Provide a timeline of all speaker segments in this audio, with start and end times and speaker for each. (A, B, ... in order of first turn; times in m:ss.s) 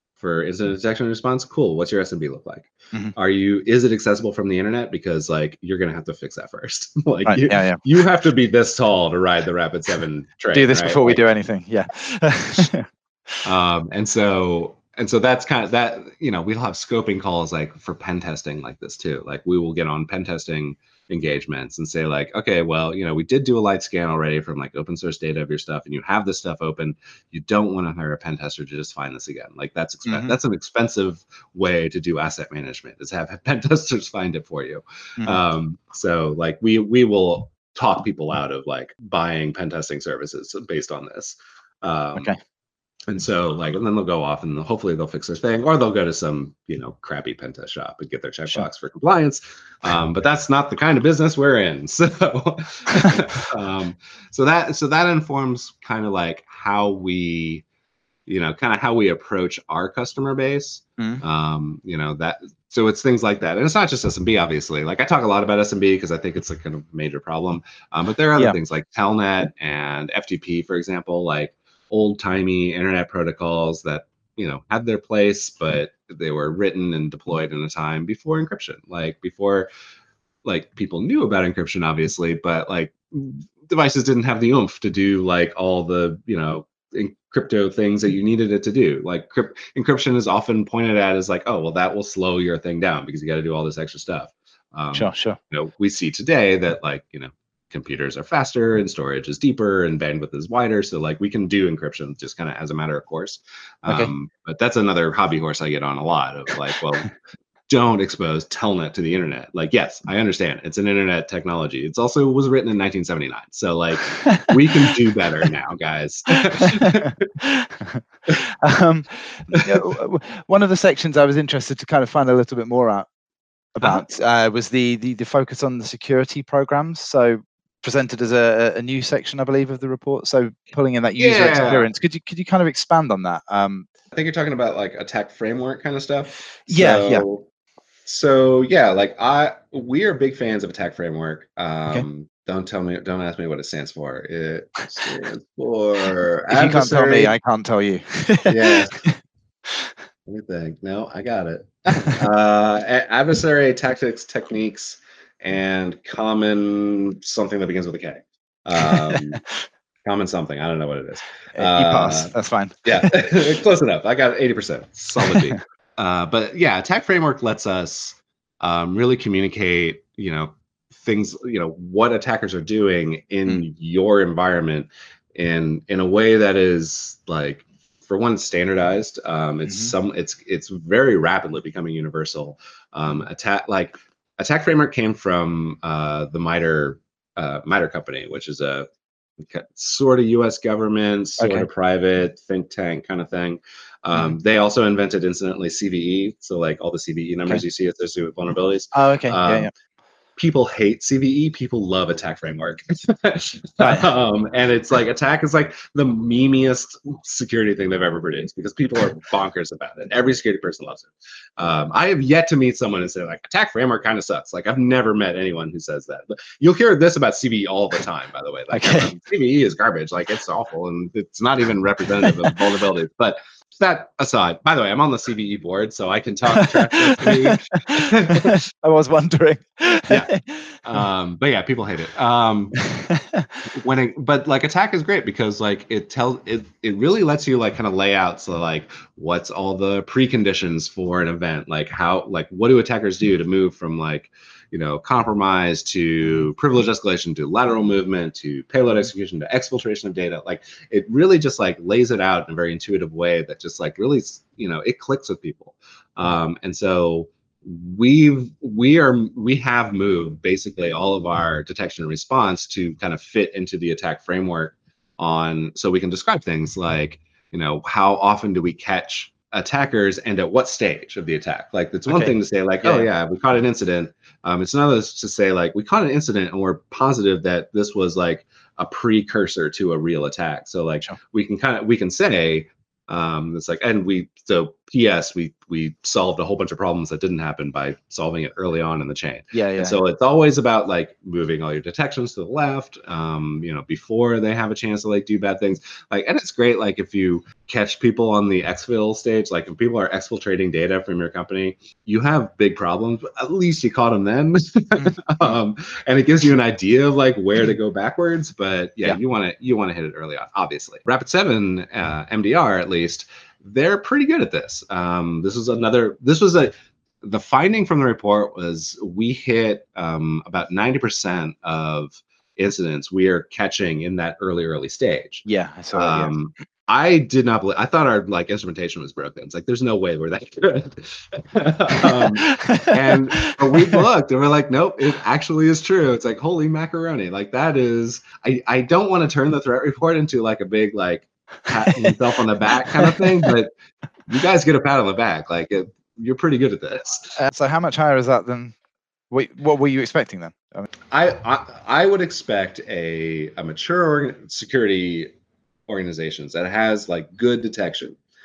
0:00.2-0:11.2 A
0:07.3-0:07.8 B
0:10.5-0:12.9 B
0:13.4-0:42.3 A
0:30.0-0:30.3 B
0:43.1-0:57.6 A
0:58.2-1:19.7 A
1:01.0-1:01.2 B
1:20.4-1:47.1 A
1:34.9-1:35.4 B
1:47.7-1:57.3 A
1:54.2-1:54.9 B
1:56.5-1:58.0 B
1:58.6-2:03.1 B
1:59.5-1:59.8 A
2:03.7-2:13.9 B
2:11.2-2:11.9 A
2:14.1-2:17.4 A
2:16.7-2:17.2 B
2:18.0-2:27.3 A
2:26.5-2:29.2 B
2:28.4-2:29.0 A
2:30.2-2:39.4 A
2:38.8-2:39.2 B
2:40.0-2:42.3 A
2:41.5-2:43.2 B
2:42.8-3:08.9 A
2:45.2-2:45.6 B
2:59.7-2:59.9 B
3:09.4-3:19.7 A
3:11.4-3:11.7 B
3:18.9-3:19.7 B
3:20.4-3:48.6 A
3:23.8-3:24.1 B
3:38.7-3:39.1 B
3:46.6-3:50.8 B
3:50.8-3:52.8 A
3:52.8-3:53.6 B
3:53.7-5:43.7 A
4:32.1-4:33.1 B
4:49.5-4:50.0 B
5:25.4-5:26.3 B
5:32.0-5:34.0 B
5:42.8-5:43.3 B
5:44.3-5:47.4 A
5:47.4-5:48.7 B
5:49.3-5:50.9 B
5:51.1-5:55.3 A
5:55.9-5:58.2 A